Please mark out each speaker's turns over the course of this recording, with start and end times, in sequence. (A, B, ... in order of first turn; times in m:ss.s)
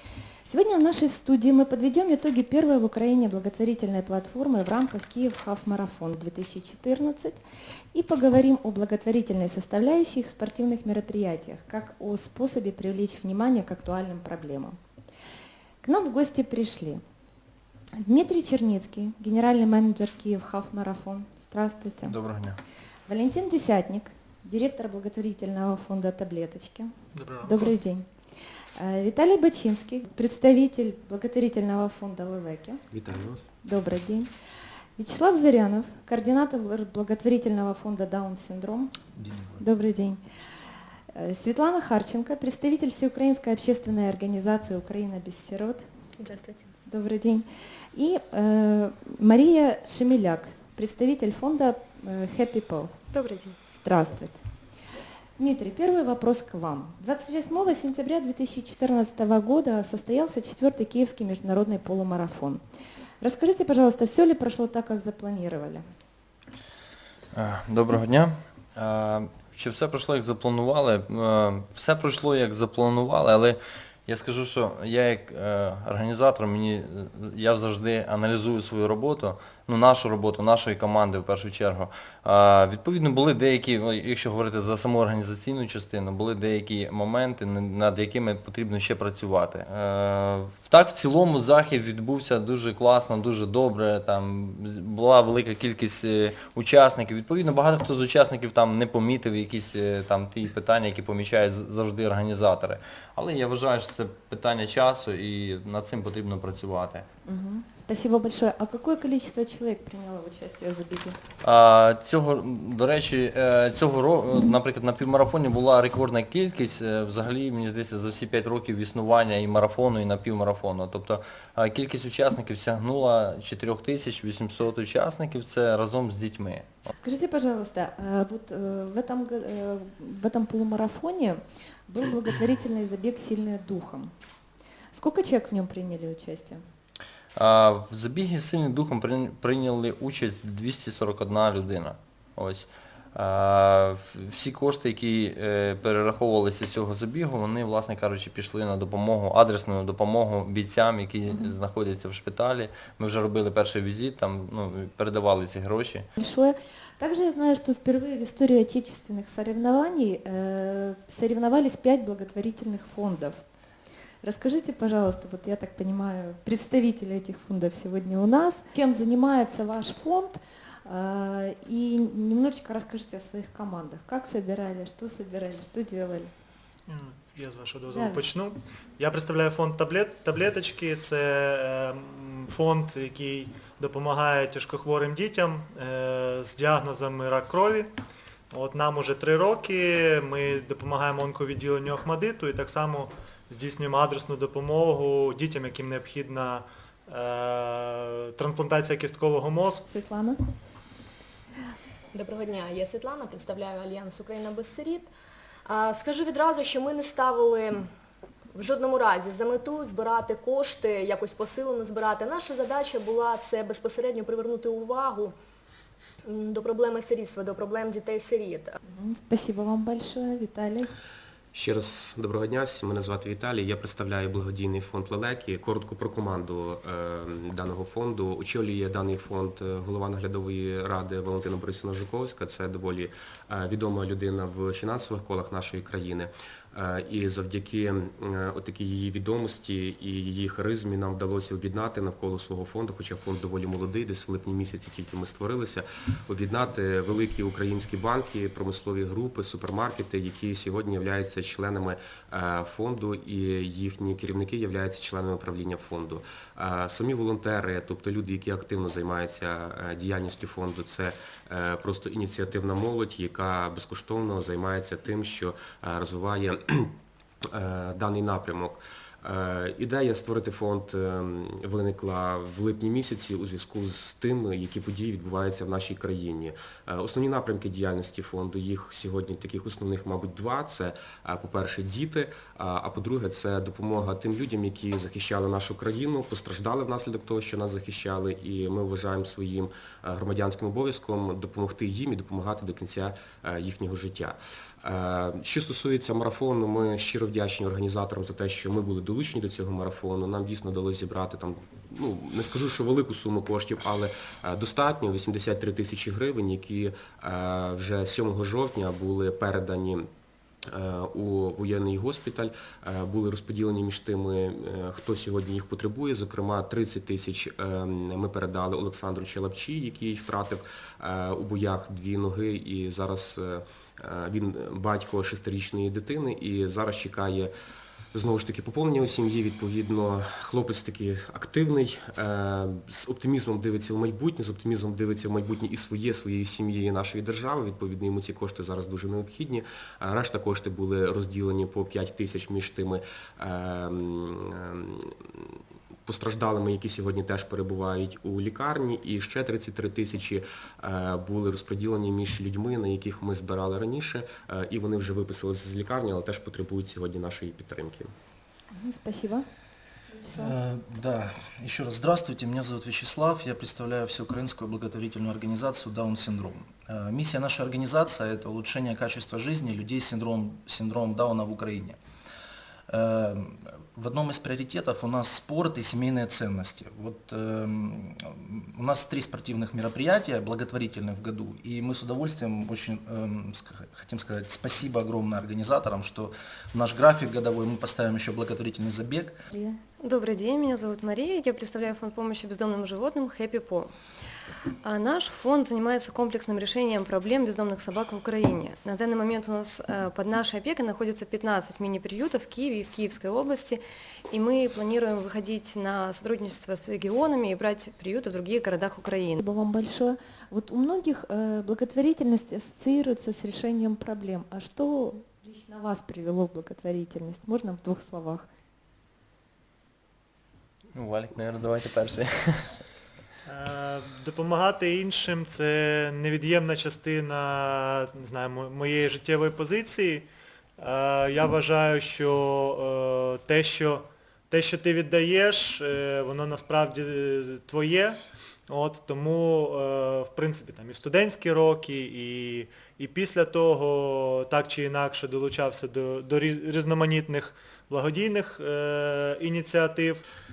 0:00.5-0:07.4 A
0:07.9-0:14.8 A
0:15.8-0:17.0 A
0:18.0-0:22.2 A
0:22.0-0:22.6 B
0:23.1-0:26.9 A
0:27.1-0:27.8 C
0:27.4-0:28.1 A
0:28.8-0:32.8 A
0:32.9-0:33.5 D
0:33.6-0:34.3 A
0:35.0-0:38.9 A
0:39.1-0:39.6 E
0:39.6-0:40.2 A
0:41.1-0:45.8 A
0:46.2-0:46.7 F
0:46.9-0:52.9 A
0:53.1-0:53.6 G
0:53.7-0:54.4 A
0:55.4-1:02.6 A
1:03.2-1:05.8 A
1:07.3-1:47.1 B
1:47.3-1:51.2 A
1:51.4-2:06.7 B
2:07.0-2:14.1 A
2:14.9-2:16.6 A
2:17.4-2:36.0 B
2:36.2-2:43.4 A
2:44.2-2:56.3 A
2:56.9-3:07.9 C
2:57.9-2:58.2 A
3:08.5-3:19.8 C
3:19.8-3:20.4 A
3:22.1-3:25.1 F
3:25.6-3:27.8 F
3:28.5-3:35.3 F
3:36.2-3:38.8 F
3:38.9-3:40.9 A
3:41.5-4:27.0 D
4:27.5-5:10.1 D
5:10.7-5:27.5 D
5:28.1-5:58.1 D
5:58.7-5:59.4 A
6:00.1-6:00.6 A
6:00.3-6:12.0 E
6:12.9-6:29.4 E
6:29.5-6:29.8 A
6:30.0-6:33.9 G
6:34.8-6:49.4 G
6:49.4-6:58.5 A
7:00.9-7:02.8 B
7:03.5-7:10.3 C
7:10.8-7:30.2 C